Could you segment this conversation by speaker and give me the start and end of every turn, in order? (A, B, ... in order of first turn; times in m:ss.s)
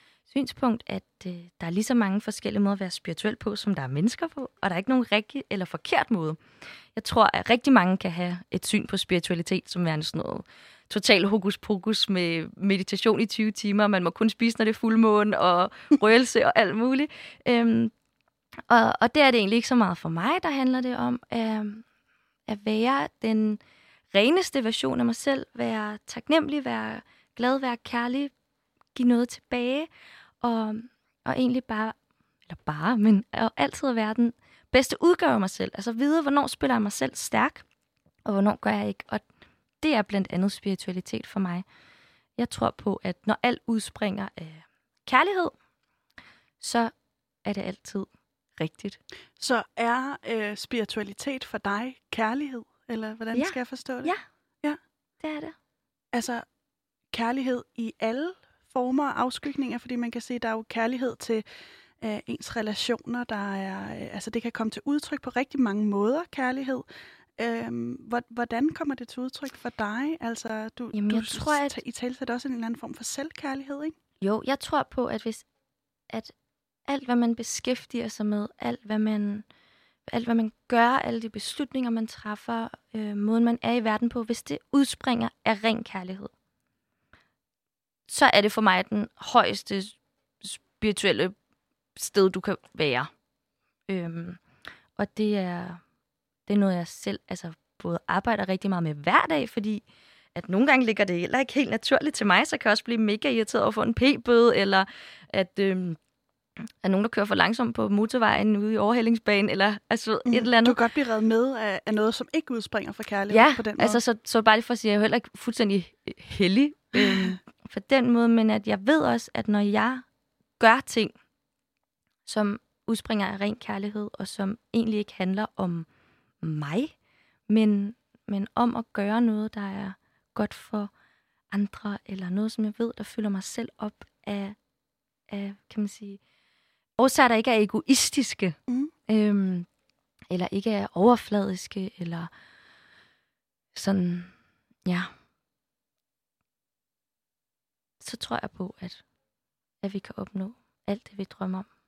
0:00.3-0:06.4 A
0:06.9-0:17.9 A
0:18.7-0:21.8 A
0:22.5-0:23.6 A
0:24.1-0:28.3 A
0:28.9-0:29.9 A
0:30.4-0:32.0 A
0:32.5-0:37.6 A
0:38.2-0:39.2 A
0:39.8-0:41.6 A
0:42.4-0:45.5 A
0:46.6-0:46.9 A
0:47.4-0:49.0 A
0:49.4-0:54.8 B
0:53.3-0:54.2 A
0:55.2-0:55.6 A
0:56.1-0:56.4 B
0:57.1-1:01.4 B
1:02.0-1:06.8 B
1:07.4-1:13.9 B
1:10.9-1:11.8 A
1:14.2-1:15.4 A
1:16.9-1:19.4 A
1:20.1-1:26.3 A
1:28.1-1:31.3 A
1:32.0-1:33.1 A
1:33.9-1:34.4 A
1:35.0-1:35.8 A
1:36.5-1:39.8 A
1:40.3-1:46.0 A
1:46.8-1:50.8 A
1:50.2-1:54.0 B
1:53.3-2:00.0 A
2:00.6-2:01.1 A
2:02.2-2:05.9 A
2:06.4-2:06.9 A
2:07.5-2:10.9 A
2:11.5-2:14.6 A
2:15.3-2:16.2 A
2:17.0-2:18.6 A
2:19.1-2:19.7 A
2:20.3-2:22.3 A
2:23.7-2:24.3 A
2:24.8-2:25.1 A
2:28.0-2:29.0 A
2:29.8-2:31.7 A